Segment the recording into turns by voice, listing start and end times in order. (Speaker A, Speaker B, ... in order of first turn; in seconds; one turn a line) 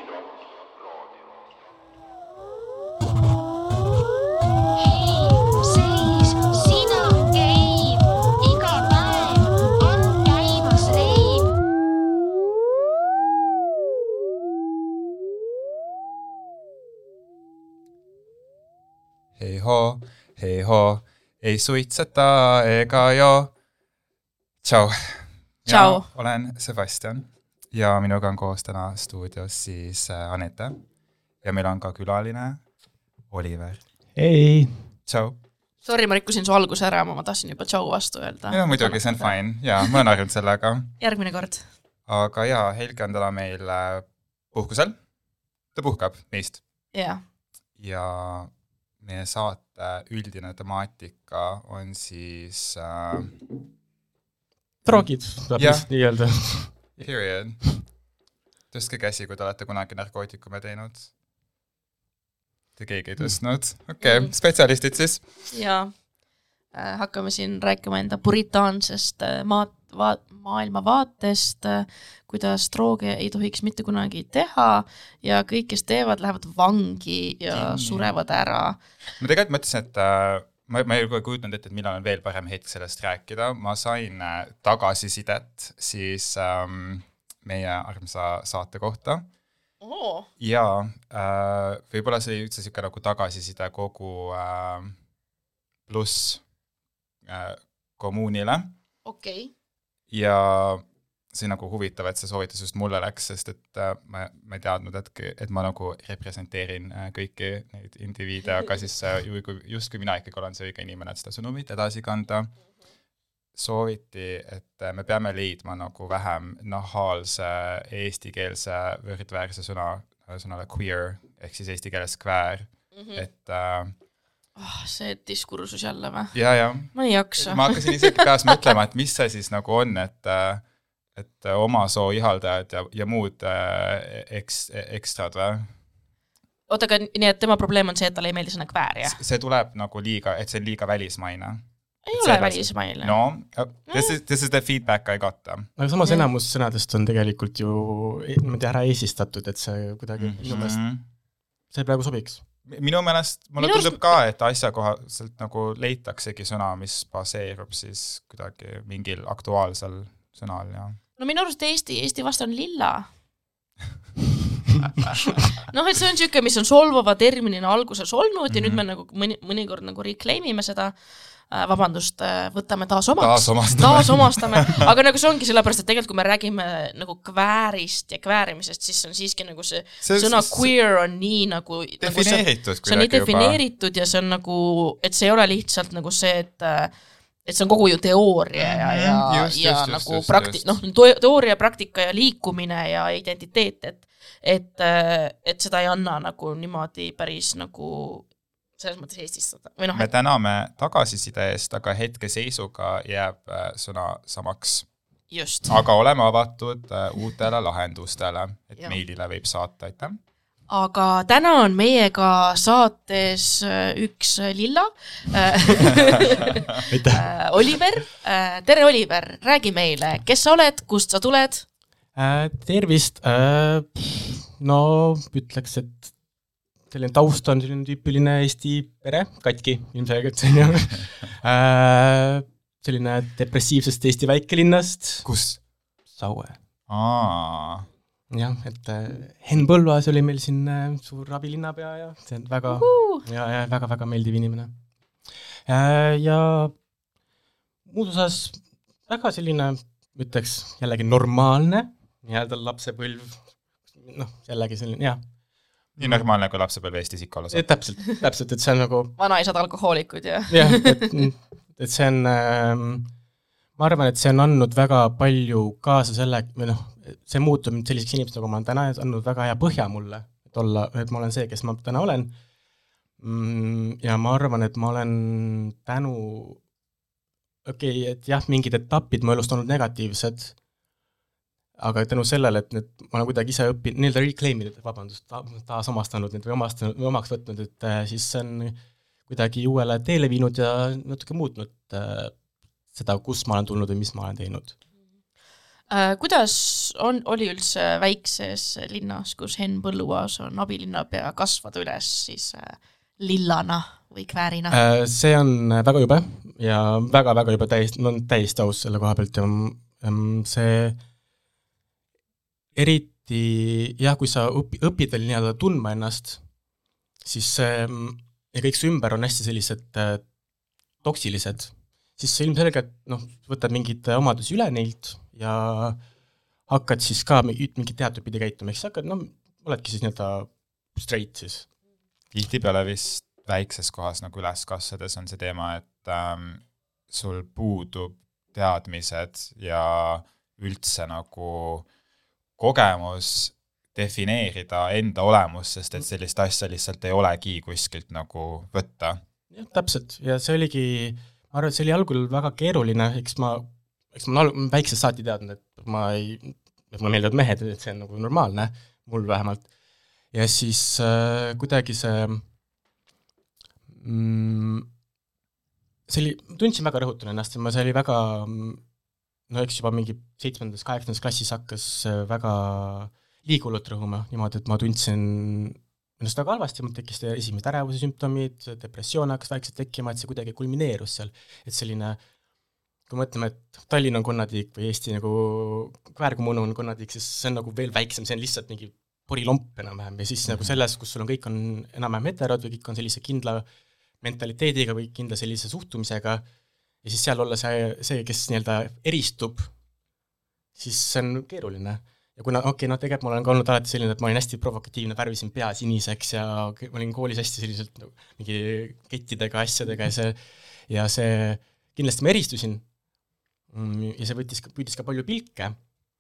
Speaker A: 5.3-8.0
Speaker A: 8.5-9.7
Speaker A: 10.3-11.5
Speaker B: 19.4-23.5
Speaker B: 24.6-30.8
Speaker C: 25.7-26.1
Speaker B: 31.4-32.6
Speaker B: 33.3-33.8
Speaker D: 34.2-34.9
Speaker B: 35.1-35.4
Speaker C: 35.8-40.1
Speaker B: 38.5-40.9
Speaker C: 41.0-41.6
Speaker B: 42.1-45.0
Speaker B: 45.8-46.6
Speaker C: 46.9-47.2
Speaker B: 47.8-53.4
Speaker D: 54.8-56.9
Speaker B: 55.6-55.9
Speaker B: 57.0-57.9
Speaker B: 58.7-61.1
Speaker B: 62.8-65.3
Speaker C: 64.0-64.3
Speaker C: 65.5-66.0
Speaker C: 66.7-78.8
Speaker B: 77.5-78.1
Speaker B: 79.2-89.2
Speaker C: 89.8-90.3
Speaker B: 90.4-95.0
Speaker B: 95.9-96.4
Speaker B: 97.2-98.7
Speaker C: 99.0-99.5
Speaker B: 100.1-112.5
Speaker B: 113.5-123.9
Speaker C: 123.0-123.2
Speaker C: 124.6-128.7
Speaker B: 126.3-130.6
Speaker B: 131.2-135.7
Speaker C: 136.7-139.2
Speaker B: 139.1-145.7
Speaker C: 142.1-143.2
Speaker C: 143.9-144.2
Speaker D: 145.8-150.8
Speaker B: 150.2-151.0
Speaker D: 151.7-152.4
Speaker B: 152.7-161.0
Speaker C: 153.6-154.0
Speaker C: 161.2-163.1
Speaker C: 165.6-170.9
Speaker B: 168.5-168.8
Speaker C: 171.5-186.9
Speaker B: 173.2-174.9
Speaker B: 180.0-180.7
Speaker B: 182.0-183.6
Speaker C: 187.4-198.3
Speaker B: 188.6-190.8
Speaker C: 198.8-200.1
Speaker B: 199.9-204.9
Speaker C: 205.3-205.8
Speaker B: 205.7-210.2
Speaker C: 210.7-221.7
Speaker D: 216.9-217.3
Speaker D: 222.2-226.1
Speaker D: 226.9-235.3
Speaker B: 235.2-235.6
Speaker D: 236.2-236.6
Speaker B: 236.9-237.9
Speaker D: 238.3-244.7
Speaker C: 242.7-243.2
Speaker D: 245.7-246.8
Speaker D: 247.9-255.2
Speaker B: 256.0-257.6
Speaker D: 256.0-256.3
Speaker D: 257.5-259.1
Speaker C: 259.2-261.0
Speaker D: 260.5-263.1
Speaker D: 263.8-272.3
Speaker D: 273.2-276.6
Speaker D: 277.6-280.6
Speaker D: 281.8-288.8
Speaker D: 289.3-292.4
Speaker D: 292.9-294.8
Speaker C: 295.9-304.8
Speaker D: 304.7-311.0
Speaker D: 312.8-316.4
Speaker D: 317.2-320.2
Speaker D: 321.0-326.0
Speaker D: 326.7-331.7
Speaker B: 332.3-341.9
Speaker B: 342.6-349.2
Speaker D: 349.5-359.7
Speaker D: 360.3-362.4
Speaker D: 364.0-364.9
Speaker D: 366.1-368.8
Speaker D: 369.5-382.2
Speaker D: 383.1-393.6
Speaker B: 390.5-390.7
Speaker D: 394.2-396.4
Speaker D: 397.0-399.7
Speaker D: 400.8-412.9
Speaker D: 413.7-415.8